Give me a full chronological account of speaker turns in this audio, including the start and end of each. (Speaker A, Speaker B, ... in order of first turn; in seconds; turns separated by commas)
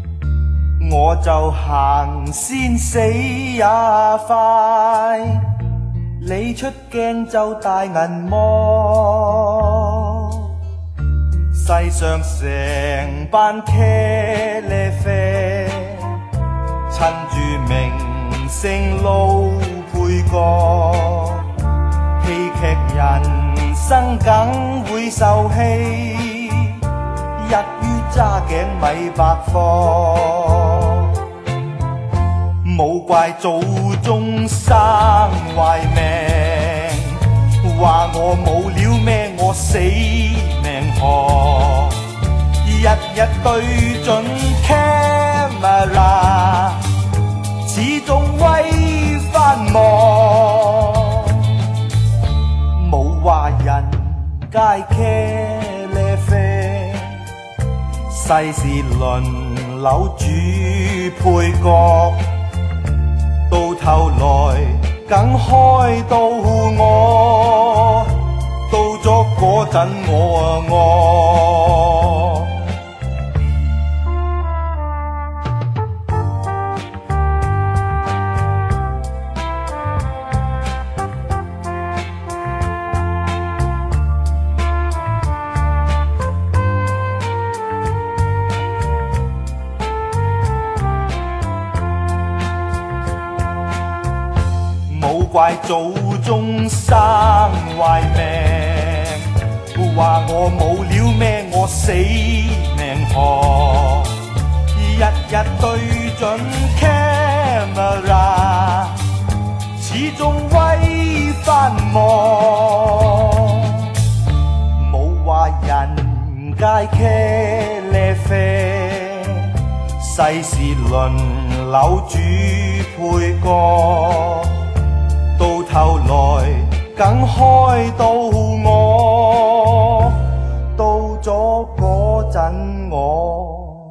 Speaker A: 0.8-5.0, Speaker A: 6.3-9.2, Speaker A: 11.6-15.8, Speaker A: 17.0-21.2, Speaker A: 22.3-26.5, Speaker A: 27.4-30.2, Speaker A: 32.7-36.9, Speaker A: 37.8-41.9, Speaker A: 42.7-46.7, Speaker A: 47.7-50.3, Speaker A: 52.8-54.0, Speaker A: 54.6-57.0, Speaker A: 58.2-62.2, Speaker A: 63.5-67.3, Speaker A: 68.7-71.6, Speaker A: 94.9-98.9, Speaker A: 99.8-104.0, Speaker A: 104.8-108.8, Speaker A: 109.8-112.9, Speaker A: 114.8-119.1, Speaker A: 120.1-124.4, Speaker A: 125.4-130.1, Speaker A: 130.8-133.8